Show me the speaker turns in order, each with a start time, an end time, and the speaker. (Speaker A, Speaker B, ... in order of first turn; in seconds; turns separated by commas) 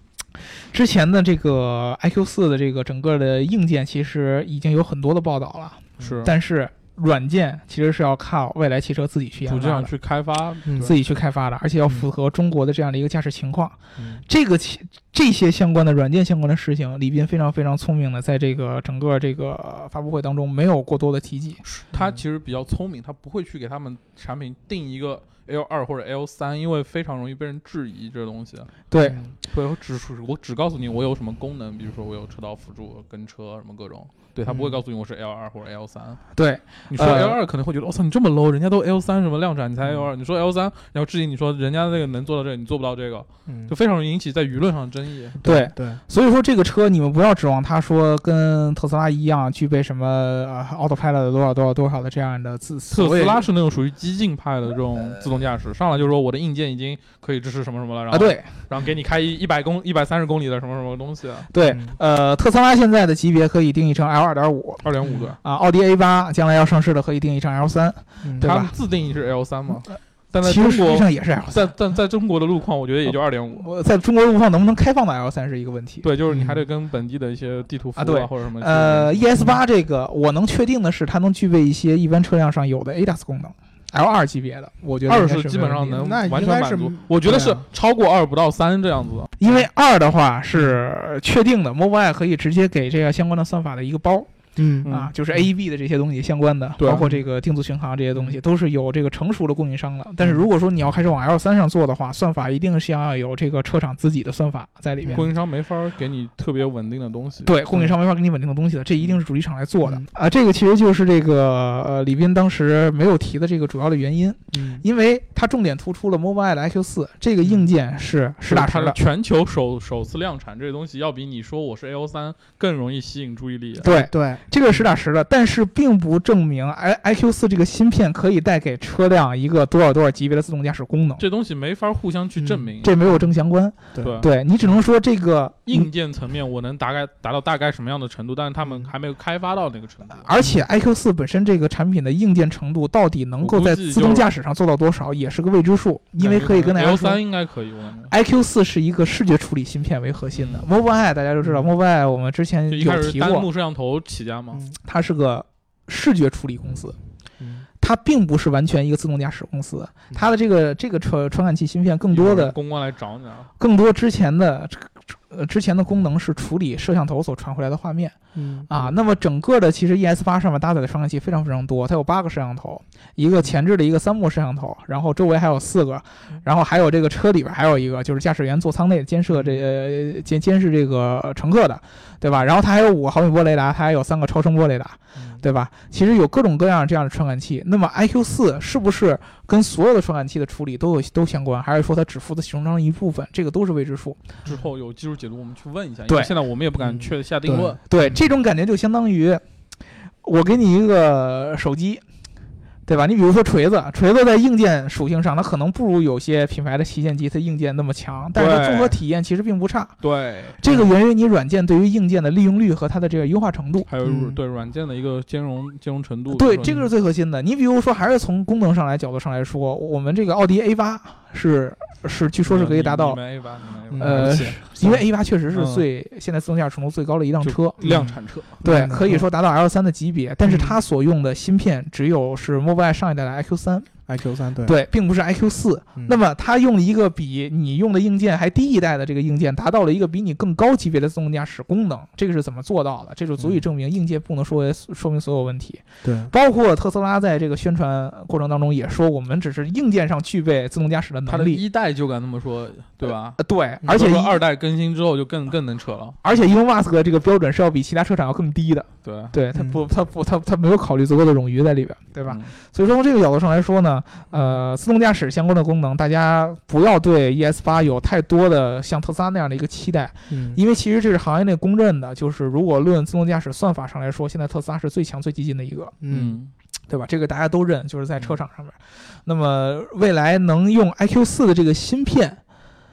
Speaker A: 0.3-9.9, Speaker B: 6.0-6.3, Speaker B: 9.5-10.9, Speaker C: 10.7-10.9, Speaker A: 10.8-21.6, Speaker C: 14.0-14.2, Speaker B: 21.6-28.8, Speaker C: 21.9-22.2, Speaker A: 28.9-29.2, Speaker C: 29.0-29.3, Speaker B: 29.4-36.2, Speaker C: 34.5-34.8, Speaker A: 36.3-37.4, Speaker B: 36.9-45.4, Speaker C: 39.8-40.1, Speaker C: 43.5-43.7, Speaker C: 45.4-46.0, Speaker A: 45.4-53.5, Speaker B: 52.9-61.5, Speaker A: 58.1-58.5, Speaker A: 61.5-64.8, Speaker C: 61.6-62.0, Speaker B: 64.8-65.4, Speaker A: 65.4-68.7, Speaker C: 68.2-68.5, Speaker B: 68.4-73.7, Speaker A: 70.4-71.7, Speaker A: 73.0-76.1, Speaker B: 76.0-79.5, Speaker C: 76.3-76.6, Speaker A: 78.0-86.0, Speaker B: 85.1-89.4, Speaker C: 86.0-87.6, Speaker A: 89.4-94.3, Speaker C: 94.5-94.9, Speaker B: 94.8-95.1, Speaker A: 94.8-105.3, Speaker B: 96.8-97.1, Speaker B: 105.1-107.5, Speaker A: 107.4-119.0, Speaker C: 114.5-114.8, Speaker B: 118.5-124.0, Speaker A: 123.8-131.2, Speaker C: 123.8-124.8, Speaker B: 131.2-133.0, Speaker C: 132.4-133.2, Speaker A: 132.8-135.9, Speaker B: 134.0-134.3, Speaker B: 135.7-140.3, Speaker A: 140.2-147.2, Speaker B: 143.4-144.3, Speaker B: 146.2-148.1, Speaker A: 148.1-153.5, Speaker B: 150.3-150.7, Speaker B: 152.7-154.6, Speaker A: 154.8-156.9, Speaker C: 157.4-157.6, Speaker A: 157.8-162.6, Speaker B: 162.1-163.5, Speaker A: 163.6-168.2, Speaker C: 168.3-168.9, Speaker A: 168.7-194.2, Speaker C: 179.3-179.6, Speaker C: 185.2-185.4, Speaker B: 194.4-197.8, Speaker A: 196.1-196.3, Speaker C: 196.8-198.1, Speaker A: 197.8-199.4, Speaker A: 200.2-202.0, Speaker A: 202.8-210.0, Speaker B: 208.3-209.0, Speaker B: 210.0-210.8, Speaker A: 210.6-213.9, Speaker B: 213.9-216.8, Speaker C: 214.0-214.4, Speaker A: 216.3-223.2, Speaker C: 216.6-216.9, Speaker B: 222.4-225.0, Speaker C: 223.9-224.4, Speaker A: 224.0-227.8, Speaker B: 225.5-225.8, Speaker B: 227.4-228.5, Speaker C: 227.8-229.3, Speaker A: 228.6-233.9, Speaker C: 230.4-230.8, Speaker C: 234.1-234.7, Speaker A: 234.6-251.6, Speaker C: 243.4-243.6, Speaker C: 246.0-246.3, Speaker B: 251.3-256.2, Speaker A: 253.4-254.4, Speaker A: 256.2-275.9, Speaker B: 259.0-259.3, Speaker C: 259.5-259.8, Speaker B: 262.3-262.5, Speaker C: 270.3-270.6, Speaker C: 276.0-276.4, Speaker B: 276.1-276.5, Speaker A: 276.9-282.4